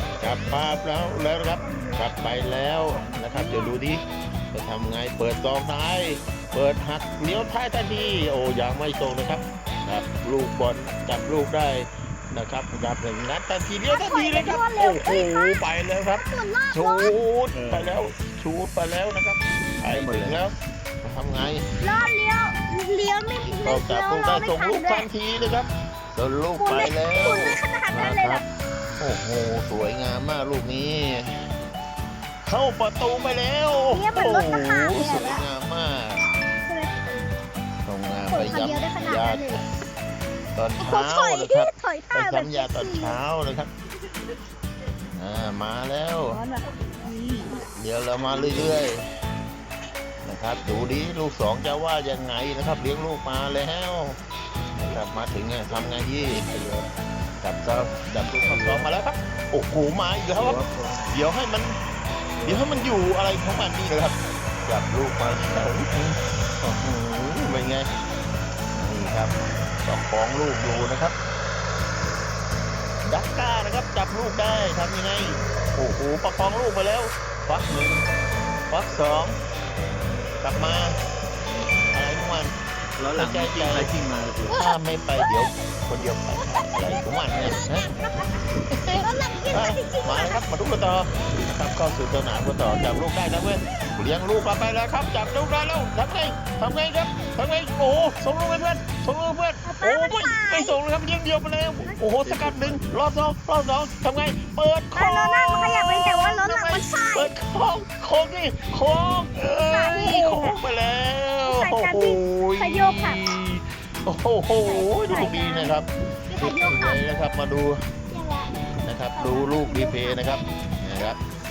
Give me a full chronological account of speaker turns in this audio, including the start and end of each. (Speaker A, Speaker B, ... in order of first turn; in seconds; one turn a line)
Speaker A: 0.2-21.6
Speaker B: 1.6-3.7
Speaker B: 13.8-17.1
Speaker C: 17.5-17.9
Speaker C: 19.9-20.4
Speaker B: 21.8-25.1
Speaker A: 23.4-28.4
Speaker B: 26.6-28.4
Speaker A: 29.0-31.4
Speaker A: 32.4-36.3
Speaker B: 33.9-35.5
Speaker B: 36.6-36.9
Speaker A: 37.8-39.6
Speaker B: 38.3-39.6
Speaker A: 40.5-43.7
Speaker B: 40.8-43.2
Speaker A: 45.1-46.4
Speaker B: 46.3-47.7
Speaker A: 47.7-49.0
Speaker C: 48.3-48.7
Speaker A: 50.2-54.2
Speaker A: 54.8-56.5
Speaker C: 56.2-56.9
Speaker A: 57.4-61.8
Speaker C: 58.2-58.9
Speaker C: 60.3-61.1
Speaker C: 62.4-62.7
Speaker A: 62.4-67.9
Speaker A: 68.7-71.1
Speaker A: 73.0-78.0
Speaker A: 78.7-79.4
Speaker A: 80.4-81.0
Speaker A: 81.9-82.5
Speaker C: 83.0-84.5
Speaker A: 83.2-83.9
Speaker A: 84.5-87.9
Speaker B: 84.5-85.3
Speaker B: 86.3-88.4
Speaker A: 88.7-115.9
Speaker B: 89.0-90.4
Speaker B: 92.6-93.0
Speaker B: 99.6-100.8
Speaker B: 101.8-102.2
Speaker C: 102.2-102.8
Speaker B: 105.0-107.3
Speaker B: 109.5-110.6
Speaker B: 111.5-113.2
Speaker B: 114.6-115.8
Speaker B: 116.3-117.0
Speaker A: 116.4-117.8
Speaker B: 118.1-118.5
Speaker A: 118.8-121.2
Speaker B: 119.1-120.3